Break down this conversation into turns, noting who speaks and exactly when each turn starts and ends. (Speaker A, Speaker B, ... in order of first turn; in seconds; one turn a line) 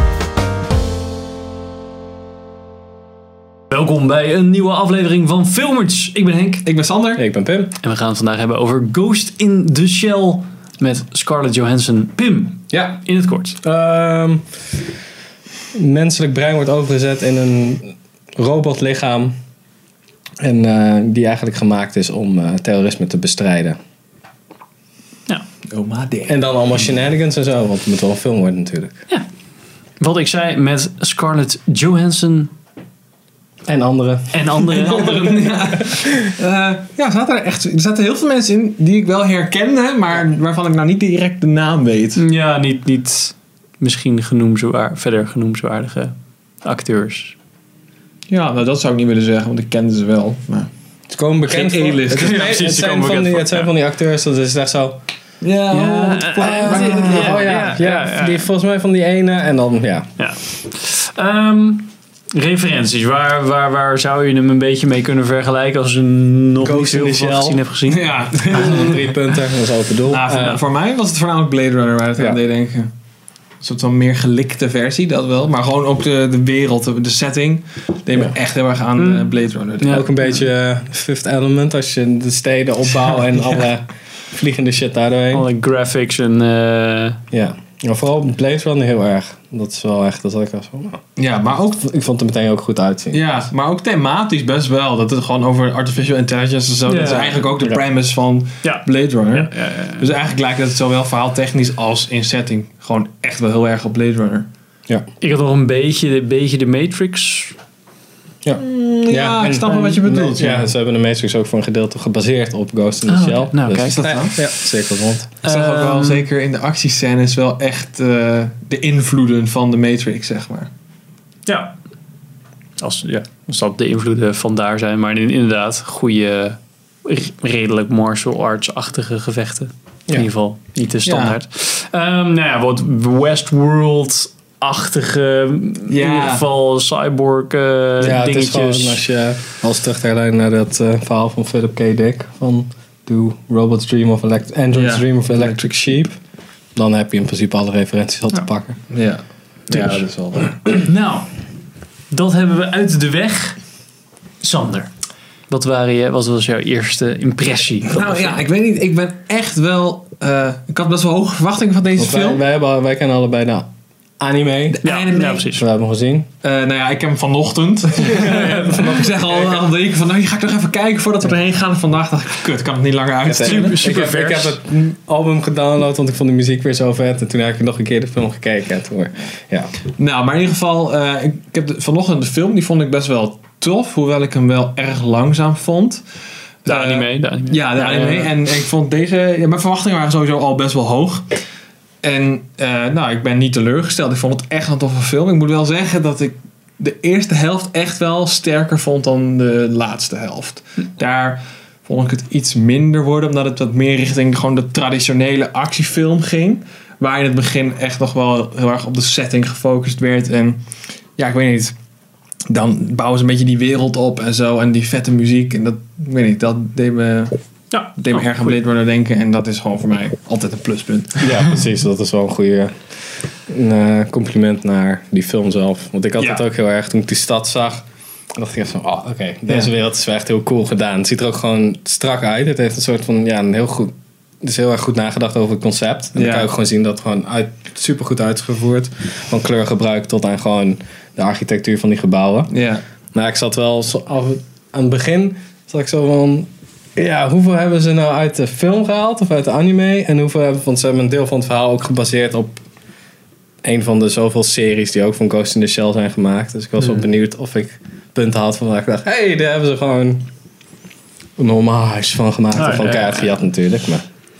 Speaker A: 3.7-6.7
Speaker B: 6.6-7.2
Speaker C: 7.2-7.7
Speaker A: 7.8-13.6
Speaker C: 12.7-13.0
Speaker C: 13.6-14.4
Speaker C: 15.7-19.3
Speaker C: 20.4-23.8
Speaker B: 25.7-26.5
Speaker C: 26.3-29.0
Speaker A: 30.0-32.5
Speaker C: 33.7-36.3
Speaker A: 34.3-35.4
Speaker B: 34.8-42.2
Speaker A: 42.1-47.3
Speaker B: 48.3-50.7
Speaker C: 51.1-55.0
Speaker B: 51.5-52.6
Speaker A: 52.1-53.7
Speaker B: 55.4-57.7
Speaker A: 55.7-58.5
Speaker C: 56.4-60.1
Speaker A: 60.2-68.9
Speaker C: 66.6-67.6
Speaker B: 67.9-69.1
Speaker C: 68.3-70.6
Speaker B: 70.1-72.9
Speaker B: 73.6-80.0
Speaker A: 79.0-80.3
Speaker C: 79.8-85.5
Speaker A: 85.3-87.2
Speaker C: 87.3-91.0
Speaker B: 91.2-91.8
Speaker C: 91.8-93.2
Speaker B: 93.1-104.5
Speaker A: 96.8-97.4
Speaker A: 98.6-100.1
Speaker A: 105.2-107.5
Speaker C: 108.4-115.3
Speaker B: 108.5-110.7
Speaker A: 113.1-114.0
Speaker B: 113.8-114.5
Speaker A: 115.4-116.2
Speaker B: 115.4-120.7
Speaker A: 121.5-121.7
Speaker A: 122.8-139.0
Speaker B: 131.0-131.3
Speaker B: 135.9-136.4
Speaker C: 138.0-146.2
Speaker B: 144.7-145.6
Speaker C: 146.7-148.8
Speaker B: 148.9-150.6
Speaker A: 150.8-151.3
Speaker A: 152.1-153.6
Speaker A: 154.4-154.9
Speaker A: 155.5-158.4
Speaker B: 157.9-162.4
Speaker C: 162.0-163.7
Speaker C: 164.2-164.8
Speaker B: 164.7-165.5
Speaker A: 164.8-165.6
Speaker C: 165.4-166.3
Speaker B: 166.4-173.8
Speaker C: 167.9-169.6
Speaker C: 173.2-179.7
Speaker A: 173.4-174.6
Speaker B: 179.9-186.0
Speaker B: 186.6-191.3
Speaker A: 186.7-188.4
Speaker B: 192.0-210.6
Speaker B: 211.2-211.7
Speaker B: 212.5-217.4
Speaker A: 217.7-218.6
Speaker B: 217.9-221.6
Speaker C: 221.2-222.7
Speaker C: 223.5-227.8
Speaker B: 226.2-226.4
Speaker C: 228.3-242.5
Speaker B: 236.1-236.5
Speaker B: 242.5-242.8
Speaker C: 243.1-252.6
Speaker C: 253.6-260.2
Speaker C: 261.4-264.0
Speaker A: 262.5-263.4